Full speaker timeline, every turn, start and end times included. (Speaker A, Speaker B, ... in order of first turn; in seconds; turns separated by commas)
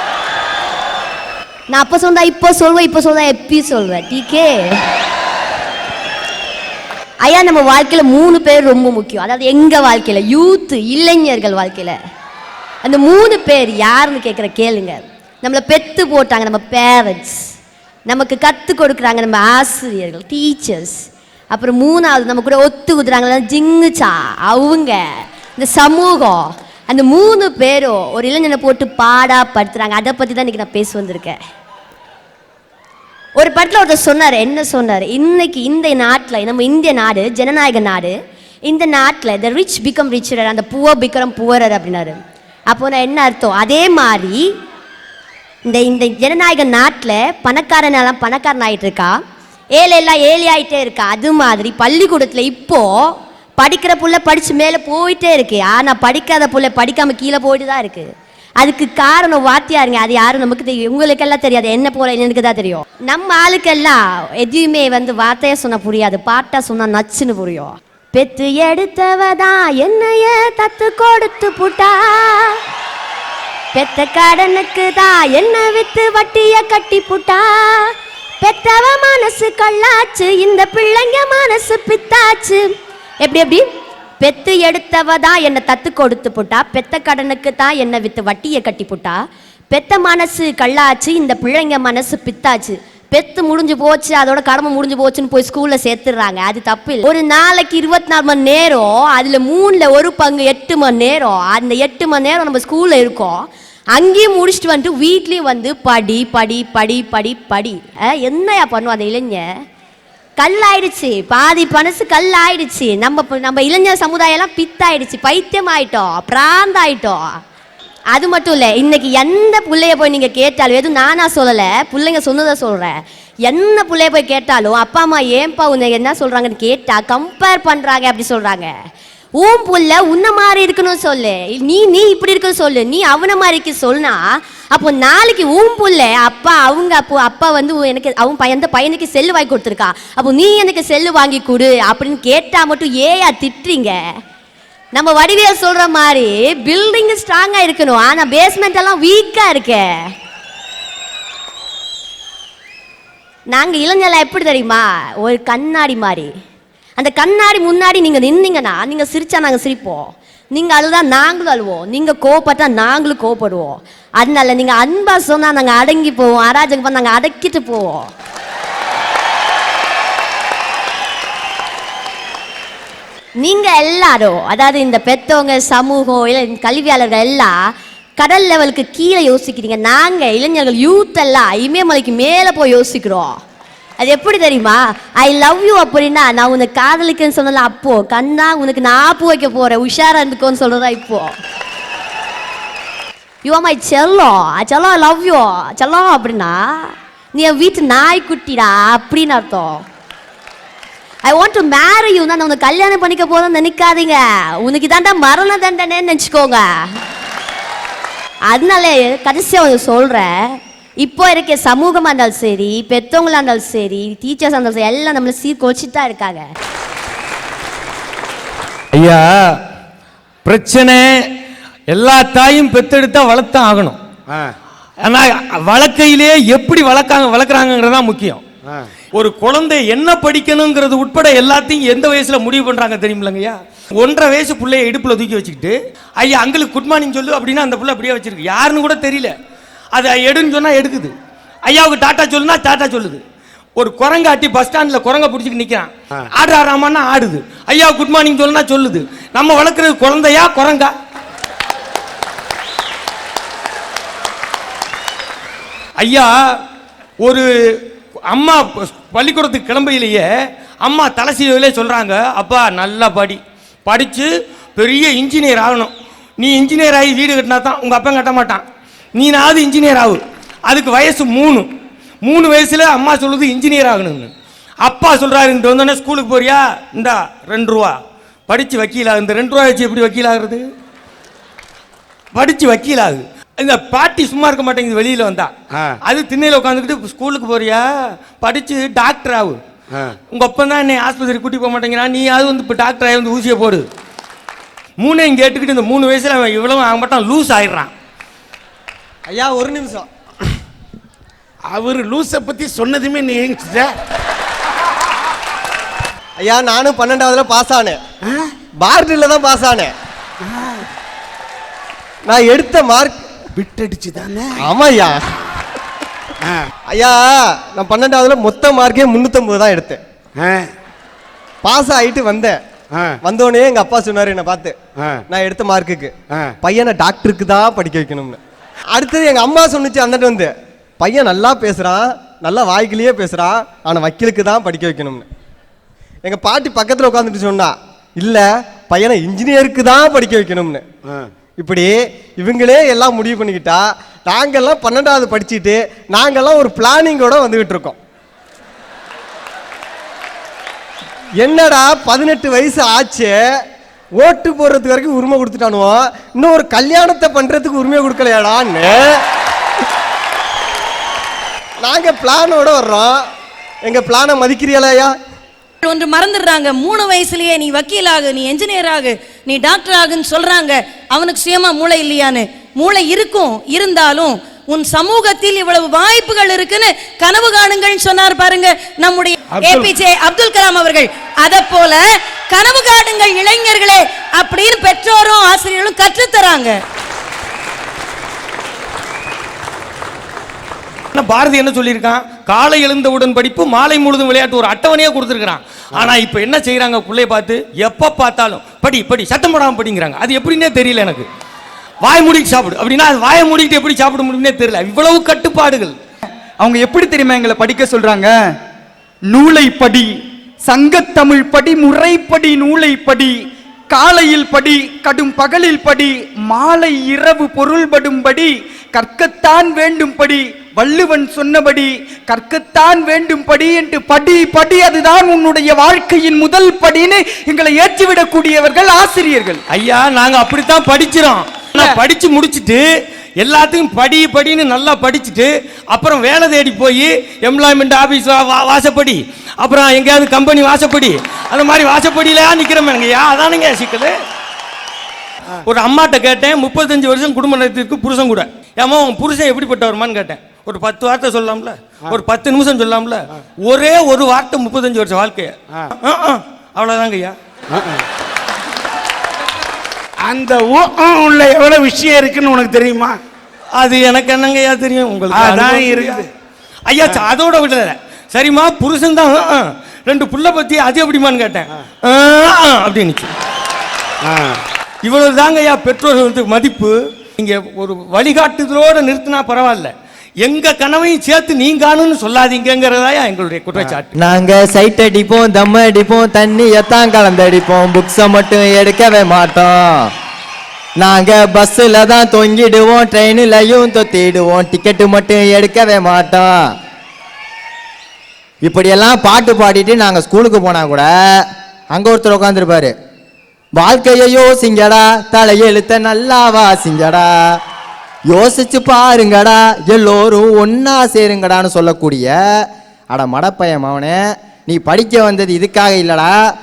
Speaker A: 1.7-4.8, Speaker A: 7.2-12.0, Speaker A: 12.8-17.4, Speaker A: 18.1-21.0, Speaker A: 21.5-25.0, Speaker A: 25.6-31.4, Speaker A: 33.4-38.1, Speaker A: 38.7-44.5, Speaker A: 45.6-49.2, Speaker A: 49.8-58.1, Speaker A: 58.6-72.6, Speaker A: 73.7-82.6, Speaker A: 83.2-83.7, Speaker A: 84.2-109.4, Speaker A: 110.4-117.3, Speaker A: 118.1-122.9, Speaker A: 123.5-128.7, Speaker A: 129.4-144.0, Speaker A: 144.9-149.9, Speaker A: 153.5-156.3, Speaker A: 157.0-168.1, Speaker A: 173.4-183.4, Speaker A: 184.0-191.3, Speaker A: 193.4-199.8, Speaker A: 201.2-206.7, Speaker A: 208.5-216.5, Speaker B: 218.9-219.5, Speaker B: 220.4-221.3, Speaker B: 221.9-224.0, Speaker B: 225.0-228.4, Speaker B: 229.1-239.3, Speaker B: 239.9-241.1, Speaker B: 241.7-243.2, Speaker B: 243.8-250.9, Speaker B: 256.0-256.3, Speaker B: 257.2-260.2, Speaker B: 260.8-268.6, Speaker B: 269.1-271.7, Speaker B: 272.2-274.3, Speaker B: 274.8-278.0, Speaker B: 278.5-280.6, Speaker B: 282.3-285.5, Speaker B: 286.0-287.8, Speaker B: 288.4-289.6, Speaker B: 290.3-293.9, Speaker B: 295.0-297.9, Speaker C: 299.3-300.1, Speaker D: 301.7-303.9, Speaker C: 306.4-308.0, Speaker C: 308.8-309.9, Speaker D: 310.4-310.9, Speaker C: 312.3-313.2, Speaker D: 313.6-314.7, Speaker C: 314.6-315.2, Speaker C: 316.9-320.0, Speaker D: 320.4-320.7, Speaker C: 321.6-322.6, Speaker C: 323.2-324.7, Speaker D: 325.0-325.2, Speaker C: 325.3-326.1, Speaker C: 326.6-328.4, Speaker C: 328.9-330.5, Speaker C: 331.0-335.3, Speaker C: 336.2-340.8, Speaker C: 341.6-348.0, Speaker C: 351.4-353.3, Speaker C: 354.2-359.0, Speaker C: 361.8-363.2, Speaker C: 363.9-365.1, Speaker E: 365.8-386.8, Speaker D: 379.5-379.9, Speaker B: 391.2-401.3, Speaker B: 402.0-406.0, Speaker F: 406.6-408.4, Speaker F: 409.2-429.6, Speaker B: 429.7-432.9, Speaker B: 433.4-444.1, Speaker B: 445.7-457.4, Speaker D: 457.7-458.0, Speaker D: 460.2-463.2, Speaker B: 463.8-466.3, Speaker D: 465.3-466.3, Speaker B: 466.9-473.3, Speaker D: 474.2-474.6, Speaker B: 475.0-484.1, Speaker G: 484.2-490.1, Speaker G: 491.0-496.6, Speaker G: 498.6-502.9, Speaker G: 503.8-507.6, Speaker G: 508.3-516.3